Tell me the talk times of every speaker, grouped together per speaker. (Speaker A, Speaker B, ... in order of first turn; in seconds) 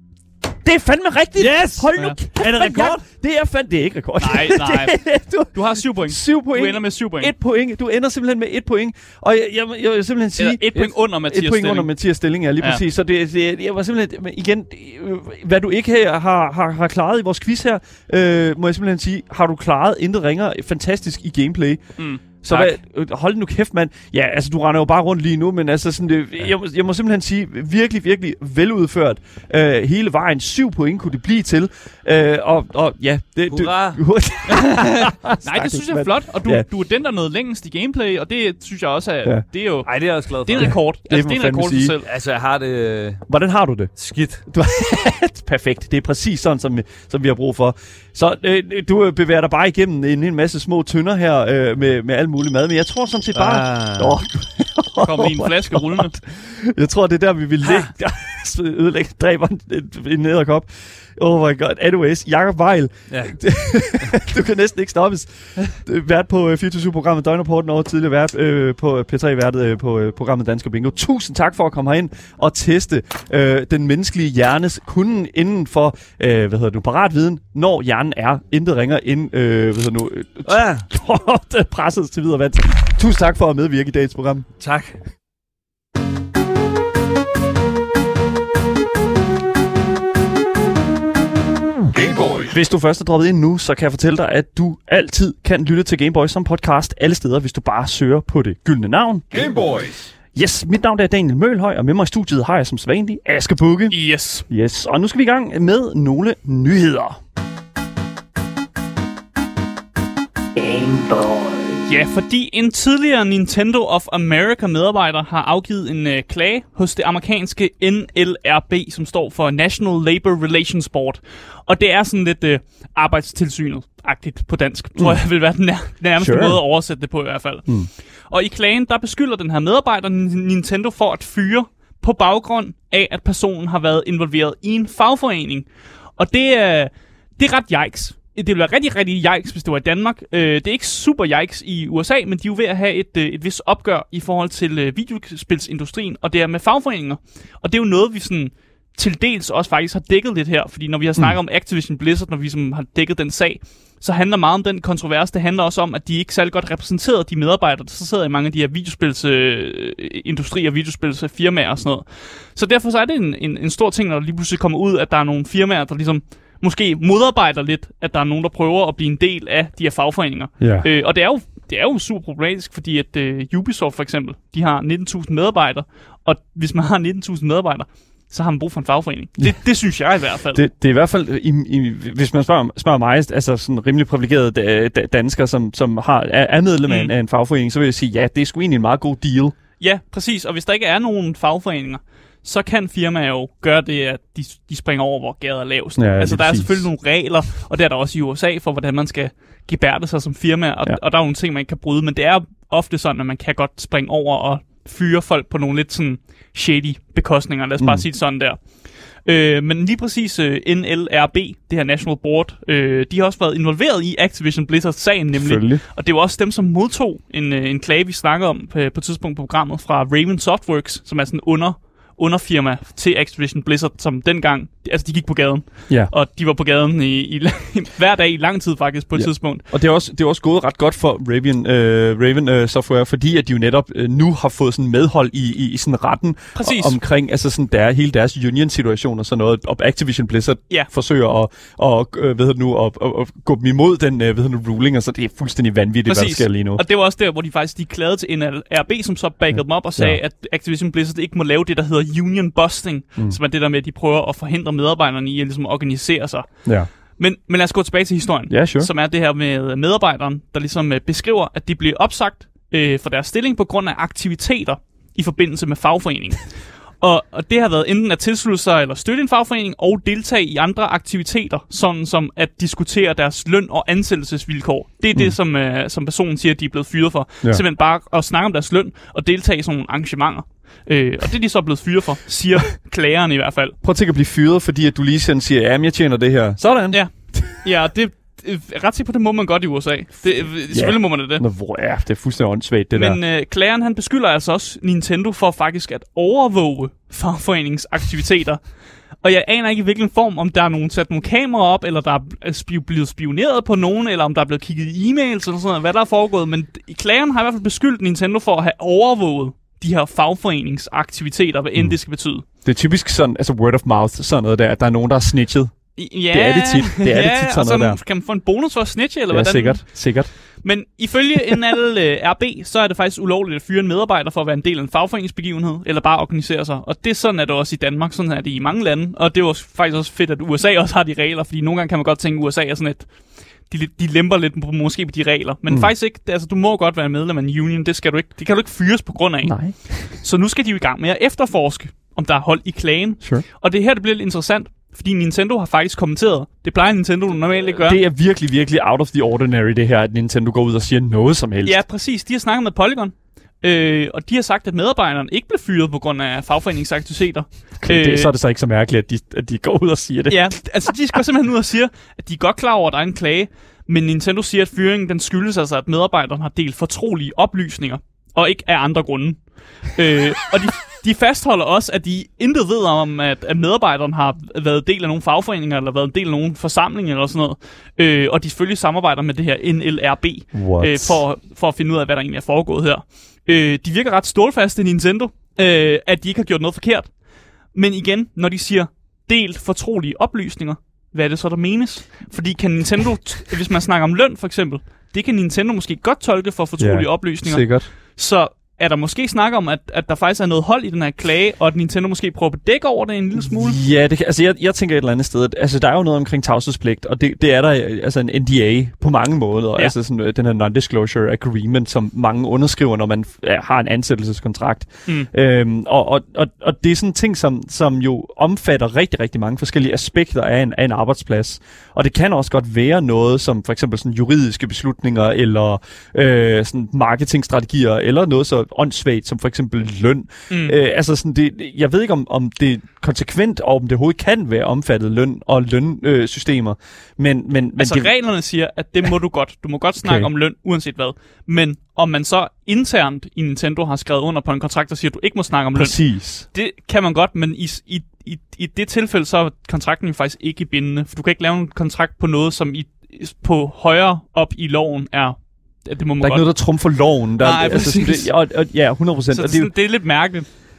Speaker A: 0.6-21.8, 22.4-36.7, 40.6-42.0, 43.3-43.9, 44.5-84.5, 92.3-104.0, 104.5-107.2, 110.6-111.8, 126.2-126.6, 170.6-170.9, 180.5-189.6, 196.0-196.9, 207.8-208.1, 215.3-215.8, 229.2-246.8, 249.5-250.2, 258.5-258.9, 283.8-287.6, 290.7-293.2, 312.6-315.7, 316.3-318.0, 319.3-320.3, 339.4-340.1, 347.7-351.8, 357.8-360.6, 380.5-381.2, 396.8-397.9, 403.4-438.1, 440.0-440.3, 445.8-446.5, 456.2-459.7
Speaker B: 1.4-3.0, 33.5-34.0, 39.9-40.8, 42.0-43.3, 44.0-44.5, 53.3-54.2, 57.6-57.9, 63.1-63.4, 80.5-80.9, 84.6-85.0
Speaker C: 4.2-5.0, 5.5-7.3, 10.4-11.9, 22.0-22.7, 35.4-39.9, 40.4-42.1, 55.0-56.2, 103.9-104.5, 111.8-127.7, 128.3-180.6, 186.9-187.1, 189.8-208.6, 209.3-229.6, 236.6-237.0, 246.1-256.6, 257.2-266.5, 267.0-283.8, 286.9-291.4, 292.9-298.6, 299.2-312.4, 316.0-319.9, 320.6-333.1, 333.7-348.0, 351.6-358.3, 360.3-387.1, 387.7-403.8, 430.5-430.8, 437.8-446.0, 446.5-456.5, 457.4-458.3, 459.3-460.5